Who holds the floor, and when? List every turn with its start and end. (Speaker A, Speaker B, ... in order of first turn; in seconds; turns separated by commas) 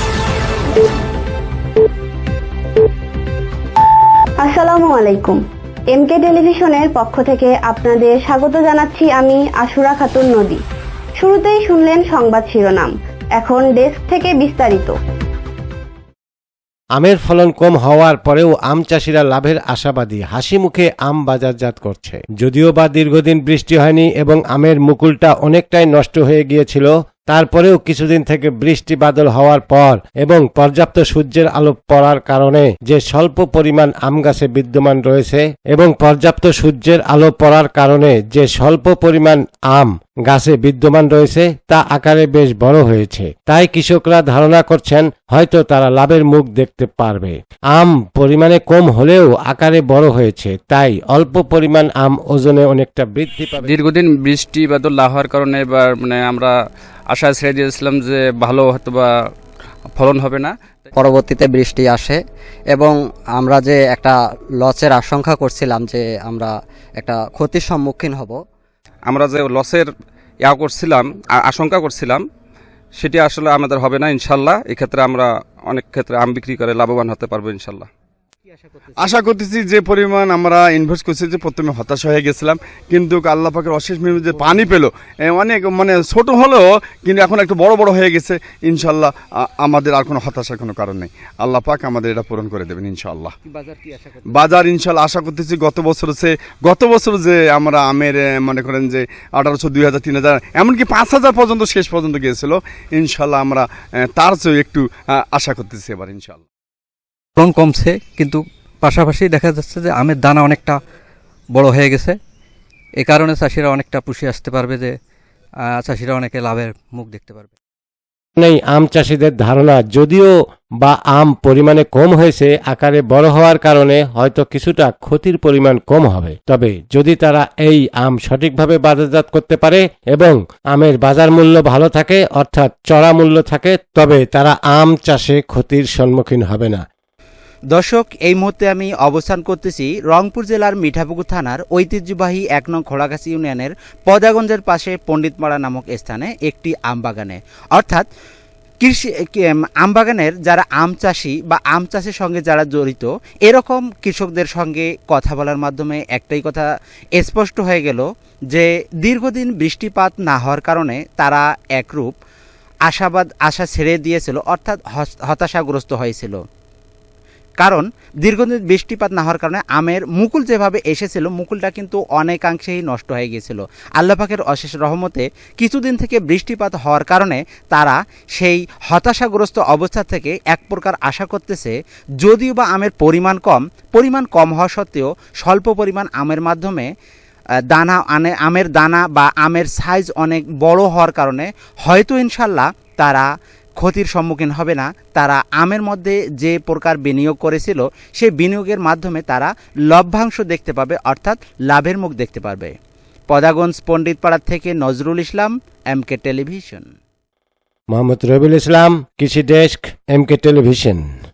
Speaker A: 4.4-10.6, Speaker A: 11.2-15.0, Speaker B: 17.0-53.7, Speaker C: 53.6-56.5, Speaker C: 57.1-59.1, Speaker C: 60.0-60.5, Speaker D: 61.0-62.2, Speaker D: 62.7-68.4, Speaker C: 69.1-69.9, Speaker C: 70.4-72.2, Speaker C: 73.0-77.9, Speaker E: 79.0-93.3, Speaker E: 94.3-106.4, Speaker F: 107.4-110.8, Speaker F: 111.5-112.2, Speaker F: 113.0-115.0, Speaker F: 115.8-117.5, Speaker B: 118.4-136.8, Speaker G: 137.7-148.1, Speaker G: 148.8-162.1, Speaker G: 162.9-166.4, Speaker G: 167.6-186.9, Speaker G: 187.7-193.3, Speaker G: 193.8-202.7, Speaker G: 203.3-206.9, Speaker B: 207.9-211.0